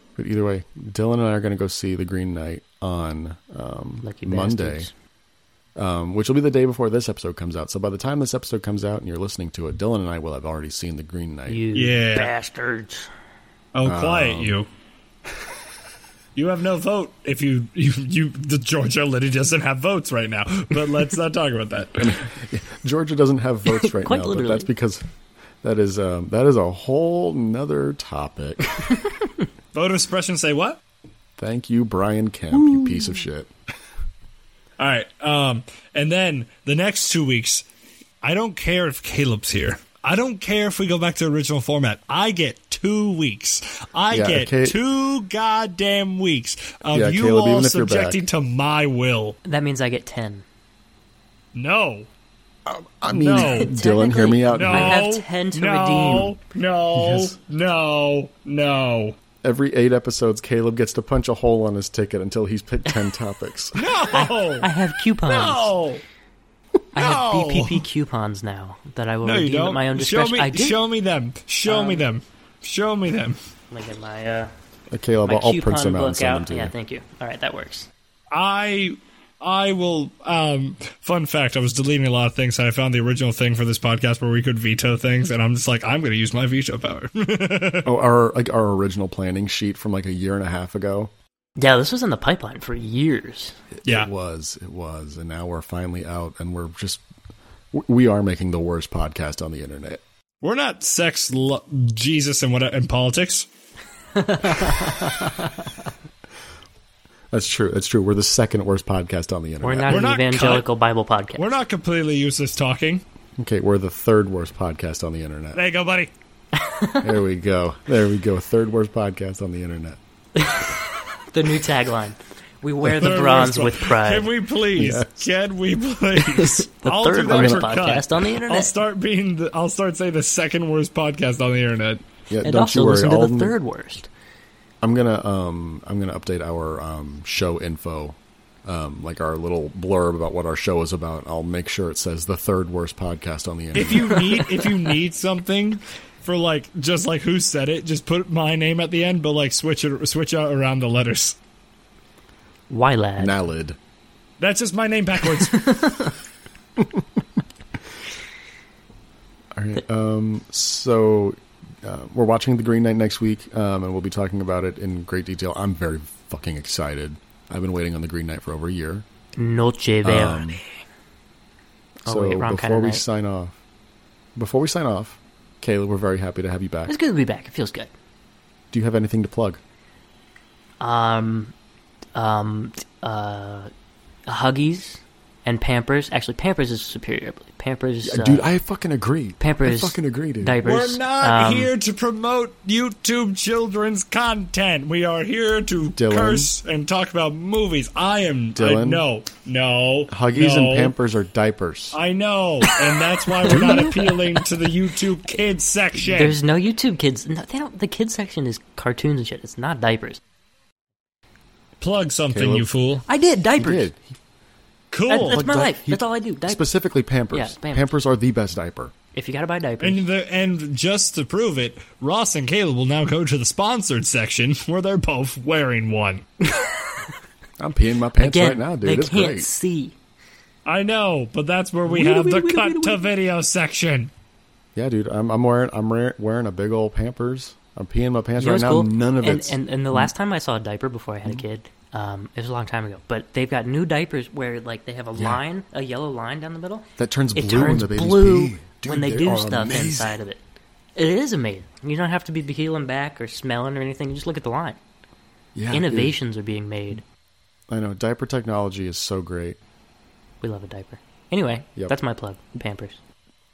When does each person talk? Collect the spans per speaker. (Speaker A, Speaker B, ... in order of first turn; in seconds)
Speaker A: 0.2-4.9, 5.8-11.6, 13.8-14.6, 22.0-25.0, 25.6-29.0, 31.4-33.5, 44.1-44.8, 46.9-48.2, 52.7-55.1, 56.9-57.4, 59.4-63.9, 74.9-76.7, 87.8-91.1, 93.8-97.0, 97.7-100.0, 107.3-110.1, 113.4-115.6, 117.0-120.0, 124.8-125.3, 132.3-133.6, 134.8-144.4, 153.2-153.8, 159.6-169.1, 170.0-170.6, 172.1-173.6, 174.4-176.9, 178.7-179.6, 188.0-190.6, 195.9-196.5, 198.6-199.1, 200.1-202.0, 212.3-212.7, 213.6-214.0, 215.2-218.9, 227.6-229.5, 234.8-240.1, 245.2-245.4, 247.0-250.2, 255.6-256.1, 257.7-259.6
Speaker B: 4.0-4.9, 11.5-13.1, 23.7-24.7, 32.5-33.2, 49.5-50.5, 53.3-56.4, 64.1-65.8, 66.9-70.8, 71.7-72.0, 73.7-74.5, 75.2-77.9, 91.6-93.6, 104.2-105.7, 109.6-111.5, 116.5-117.1, 120.4-124.3, 126.2-128.8, 132.4-134.1, 144.1-144.9, 152.7-153.4, 155.3-156.1, 169.4-170.7, 172.1-173.0, 176.9-177.9, 180.8-181.5, 182.1-183.7, 184.3-188.5, 189.4-191.7, 203.3-204.5, 206.1-210.2, 213.1-213.9, 215.1-216.7, 217.3-217.9, 219.1-220.0, 226.4-226.9, 228.2-229.9, 231.9-233.1, 238.4-250.4, 251.0-254.8, 255.7-257.0, 260.4-263.0
Speaker C: 11.7-12.3, 13.7-14.7, 16.4-22.3, 29.7-30.8, 34.8-37.7, 38.2-49.4, 51.5-52.1, 53.1-53.7, 54.5-59.2, 63.8-64.7, 65.2-66.0, 67.0-67.9, 69.2-73.4, 78.3-87.9, 100.4-103.5, 109.9-110.7, 111.4-113.0, 115.5-116.1, 122.8-132.0, 143.8-151.4, 154.4-155.9, 190.6-201.0, 201.9-206.4, 211.8-213.1, 214.9-215.4, 219.8-226.3, 230.7-234.1